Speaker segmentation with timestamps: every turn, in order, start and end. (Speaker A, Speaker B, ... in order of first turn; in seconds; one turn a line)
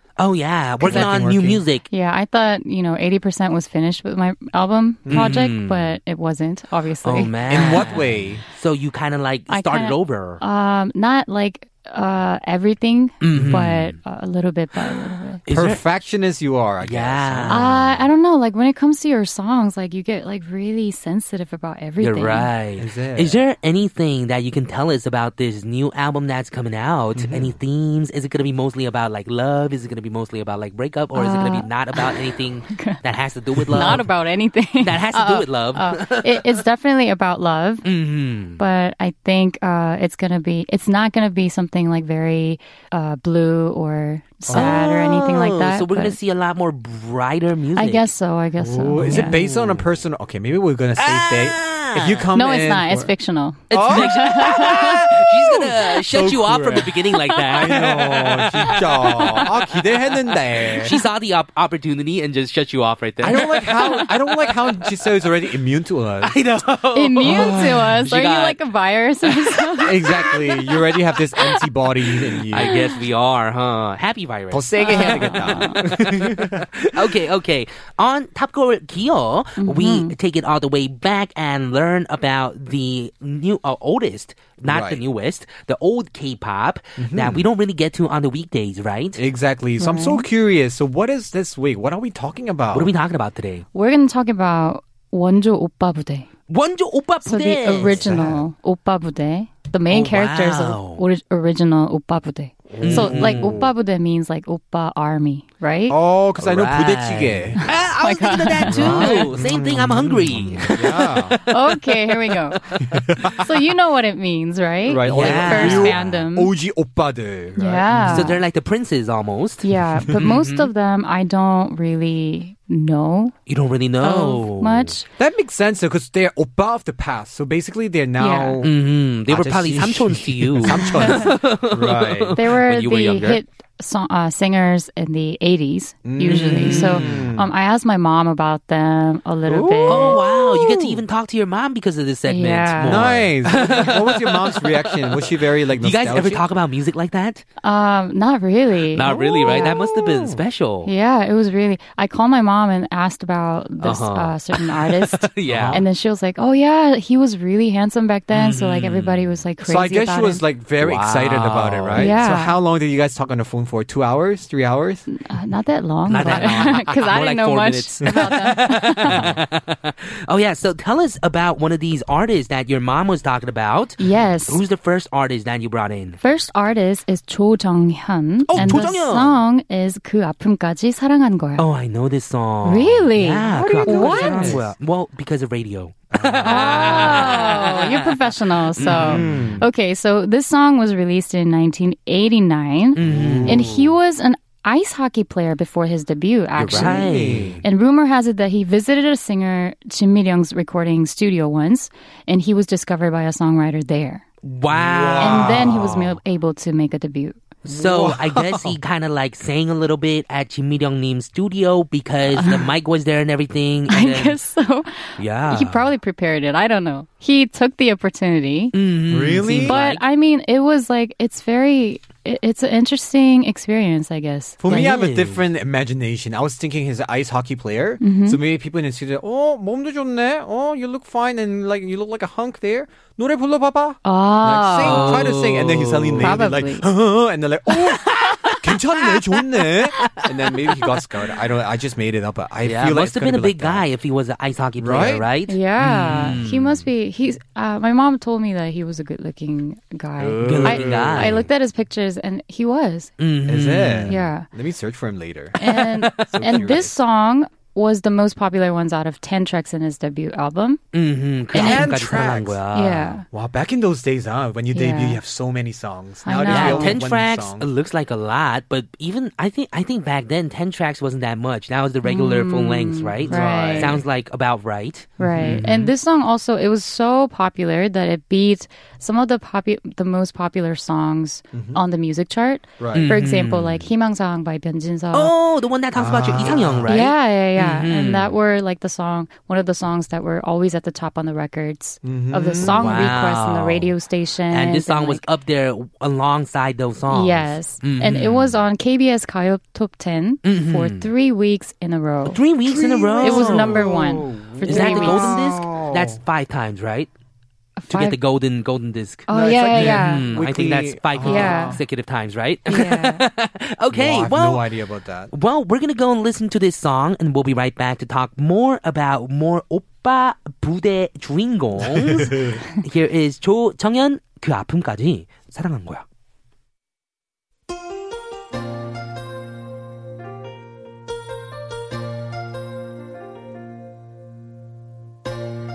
Speaker A: 0.2-1.9
Speaker B: 0.8-1.6
Speaker C: 0.9-1.1
Speaker C: 1.9-7.9
Speaker B: 5.1-5.4
Speaker A: 5.1-6.0
Speaker A: 7.0-10.4
Speaker B: 7.5-8.4
Speaker C: 9.5-15.4
Speaker A: 13.2-13.9
Speaker B: 13.3-13.7
Speaker A: 15.5-15.8
Speaker B: 15.5-18.1
Speaker A: 16.8-17.7
Speaker C: 17.5-22.5
Speaker A: 22.0-34.0
Speaker B: 22.8-23.4
Speaker B: 27.2-27.6
Speaker C: 31.1-33.0
Speaker C: 33.7-37.9
Speaker B: 33.7-34.0
Speaker A: 34.8-36.5
Speaker A: 37.9-38.6
Speaker C: 38.6-46.2
Speaker B: 44.5-44.9
Speaker A: 44.5-48.1
Speaker C: 47.8-49.4
Speaker B: 48.6-53.1
Speaker A: 49.0-49.8
Speaker A: 51.0-52.3
Speaker C: 52.4-55.0
Speaker A: 53.7-59.5
Speaker B: 53.7-54.9
Speaker B: 55.4-60.9
Speaker C: 57.3-59.5
Speaker A: 60.8-64.4
Speaker B: 63.2-66.4
Speaker A: 66.2-68.6
Speaker C: 67.0-70.4
Speaker B: 67.2-67.9
Speaker A: 69.5-69.8
Speaker B: 69.8-72.9
Speaker A: 72.5-89.2
Speaker C: 72.6-72.9
Speaker B: 74.5-77.1
Speaker C: 74.8-75.8
Speaker C: 79.6-80.1
Speaker B: 84.7-85.0
Speaker B: 87.0-87.5
Speaker B: 89.2-92.9
Speaker C: 89.8-90.3
Speaker A: 92.7-93.7
Speaker C: 93.7-96.3
Speaker A: 96.5-98.2
Speaker C: 97.3-106.0
Speaker B: 97.8-98.4
Speaker A: 99.9-101.0
Speaker A: 102.7-103.6
Speaker B: 102.8-103.7
Speaker B: 105.9-107.6
Speaker A: 106.4-111.5
Speaker C: 107.6-109.3
Speaker B: 108.7-111.4
Speaker C: 111.5-112.8
Speaker A: 112.8-113.4
Speaker B: 112.9-113.5
Speaker C: 113.3-116.5
Speaker B: 114.8-118.4
Speaker A: 115.1-116.0
Speaker C: 117.6-118.4
Speaker A: 118.1-120.7
Speaker C: 119.6-123.4
Speaker A: 123.5-125.0
Speaker C: 124.0-125.1
Speaker B: 125.2-128.7
Speaker C: 128.2-128.6
Speaker A: 128.6-133.4
Speaker B: 129.3-132.4
Speaker C: 130.8-131.2
Speaker C: 132.3-140.2
Speaker B: 136.1-137.5
Speaker A: 136.3-137.2
Speaker B: 139.5-141.0
Speaker A: 139.9-147.4
Speaker C: 142.3-143.1
Speaker B: 142.8-146.4
Speaker C: 147.6-150.2
Speaker A: 148.9-150.9
Speaker C: 150.9-160.4
Speaker A: 153.8-155.8
Speaker B: 155.5-155.9
Speaker A: 158.3-159.3
Speaker B: 159.6-165.1
Speaker A: 160.8-162.2
Speaker C: 162.0-162.6
Speaker C: 165.1-169.4
Speaker A: 166.1-176.2
Speaker B: 166.2-166.7
Speaker B: 169.1-169.4
Speaker C: 174.0-174.6
Speaker C: 176.2-181.7
Speaker A: 178.5-179.4
Speaker B: 178.5-178.9
Speaker A: 181.6-188.1
Speaker C: 182.7-184.6
Speaker B: 183.5-184.7
Speaker B: 186.1-187.4
Speaker C: 186.4-204.2
Speaker A: 188.8-189.5
Speaker B: 188.8-189.7
Speaker A: 192.9-193.7
Speaker B: 193.0-193.8
Speaker A: 196.6-197.6
Speaker B: 196.7-197.6
Speaker A: 204.4-206.1
Speaker B: 204.7-206.1
Speaker C: 205.2-207.4
Speaker A: 207.7-214.4
Speaker B: 207.7-208.8
Speaker C: 212.4-212.7
Speaker C: 213.9-218.7
Speaker A: 215.2-215.9
Speaker A: 218.7-220.0
Speaker B: 219.1-219.8
Speaker C: 219.6-224.9
Speaker B: 224.6-243.8
Speaker A: 224.7-225.4
Speaker C: 228.0-228.4
Speaker C: 234.1-235.4
Speaker A: 234.8-236.5
Speaker C: 236.2-236.9
Speaker A: 237.7-240.9
Speaker A: 242.6-246.8
Speaker B: 244.8-245.2
Speaker C: 245.5-253.1
Speaker B: 250.2-251.5
Speaker A: 250.4-251.4
Speaker A: 253.2-254.2
Speaker B: 253.5-255.6
Speaker C: 254.1-254.5
Speaker A: 255.6-256.6
Speaker C: 255.6-260.8
Speaker B: 256.3-256.9
Speaker A: 260.9-263.2
Speaker C: 261.5-262.0
Speaker B: 261.5-262.6
Speaker C: 262.7-263.3
Speaker B: 263.3-267.7
Speaker C: 264.7-265.2
Speaker C: 266.3-267.0
Speaker A: 266.5-275.9
Speaker C: 272.0-274.0
Speaker B: 273.3-274.0
Speaker B: 275.2-275.6
Speaker C: 275.2-285.3
Speaker B: 281.5-281.8
Speaker B: 282.8-283.2
Speaker A: 282.9-283.9
Speaker A: 285.1-288.3
Speaker B: 286.0-286.9
Speaker C: 286.5-295.2
Speaker B: 292.0-293.2
Speaker A: 292.6-293.9
Speaker A: 294.5-298.5
Speaker C: 297.1-302.4
Speaker A: 300.4-301.1
Speaker A: 302.3-303.8
Speaker B: 302.7-306.2
Speaker C: 303.2-305.5
Speaker A: 304.6-307.1
Speaker C: 307.8-308.2
Speaker A: 307.9-314.7
Speaker C: 309.3-310.3
Speaker B: 309.3-311.8
Speaker C: 311.2-311.8
Speaker C: 312.7-313.2
Speaker B: 313.9-315.3
Speaker A: 315.3-326.1
Speaker B: 321.8-322.6